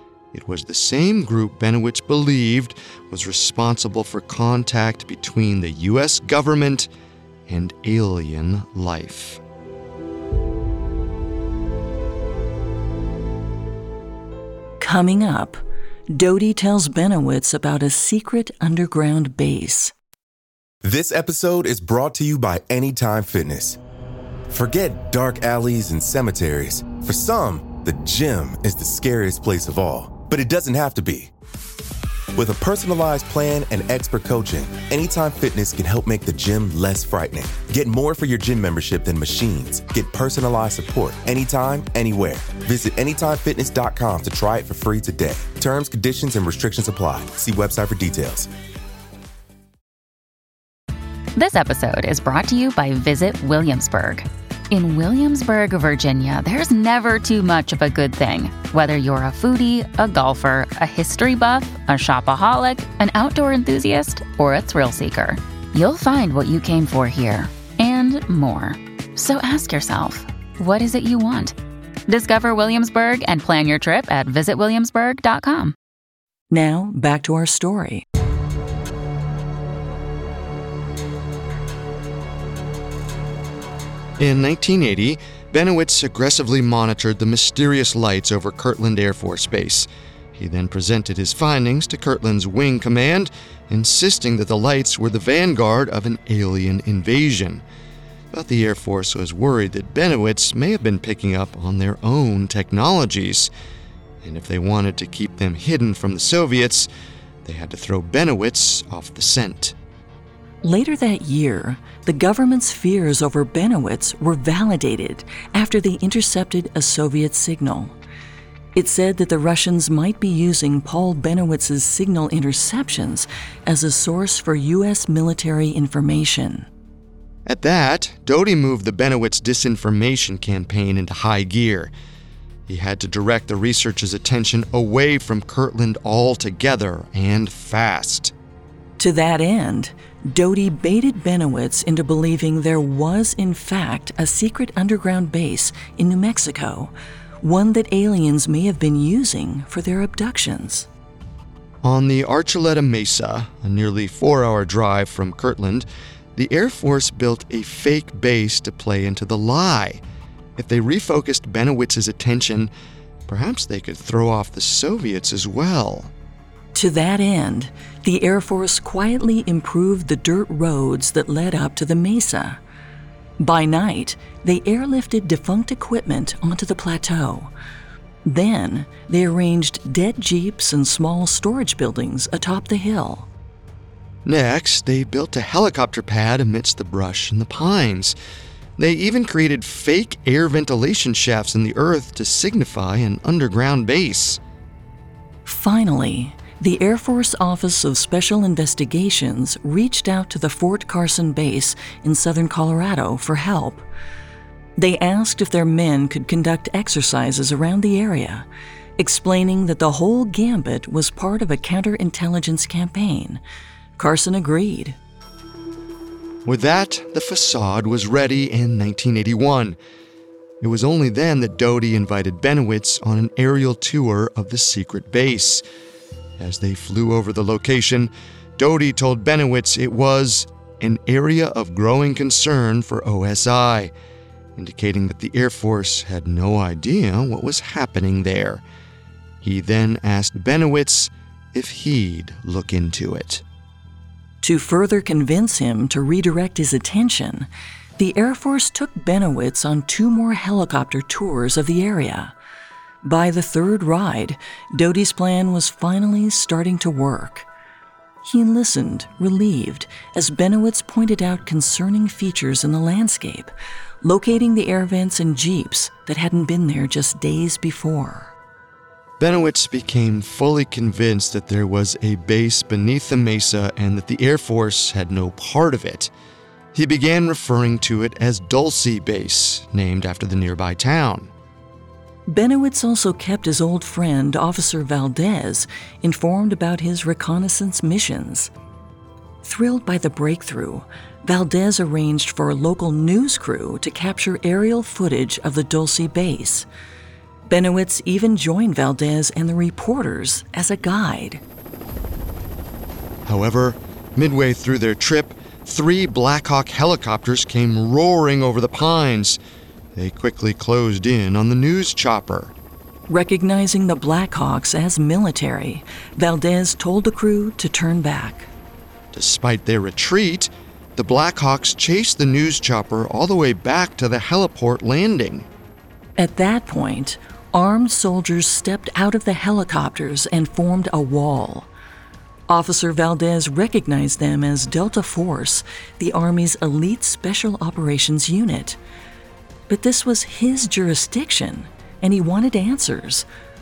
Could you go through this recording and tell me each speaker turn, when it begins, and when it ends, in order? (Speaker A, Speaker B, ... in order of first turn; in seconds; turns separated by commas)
Speaker A: 0.3-6.9, Speaker A: 7.5-9.4, Speaker B: 14.8-19.9, Speaker C: 20.8-23.8, Speaker C: 24.5-31.3, Speaker C: 32.4-48.5, Speaker D: 51.4-71.5, Speaker D: 72.1-75.8, Speaker B: 76.5-78.0, Speaker A: 84.2-97.6, Speaker A: 98.3-103.5, Speaker A: 104.2-106.9, Speaker A: 107.4-109.8, Speaker B: 110.6-118.0, Speaker B: 118.8-126.7, Speaker A: 127.5-131.9, Speaker A: 132.7-138.3, Speaker B: 139.0-150.9, Speaker A: 151.8-160.0, Speaker A: 160.6-162.7, Speaker A: 163.3-166.1, Speaker B: 166.8-172.6, Speaker B: 173.4-177.5, Speaker B: 178.2-183.3, Speaker A: 184.2-188.2, Speaker A: 188.8-194.4, Speaker B: 195.5-203.8, Speaker B: 204.8-208.5, Speaker B: 209.0-213.4, Speaker B: 214.0-215.0, Speaker A: 216.5-219.8, Speaker A: 220.6-225.6, Speaker A: 226.4-233.9, Speaker A: 234.6-238.6, Speaker A: 239.4-243.4, Speaker B: 244.4-252.3, Speaker B: 253.0-257.5, Speaker B: 258.2-268.3, Speaker A: 269.2-276.1, Speaker A: 276.7-281.3, Speaker B: 282.3-288.5, Speaker B: 289.4-296.7, Speaker B: 297.5-301.4, Speaker A: 303.3-309.4, Speaker A: 309.9-312.5, Speaker B: 313.1-318.5, Speaker A: 319.1-325.5, Speaker B: 326.2-331.7, Speaker B: 332.5-338.8, Speaker B: 339.7-343.3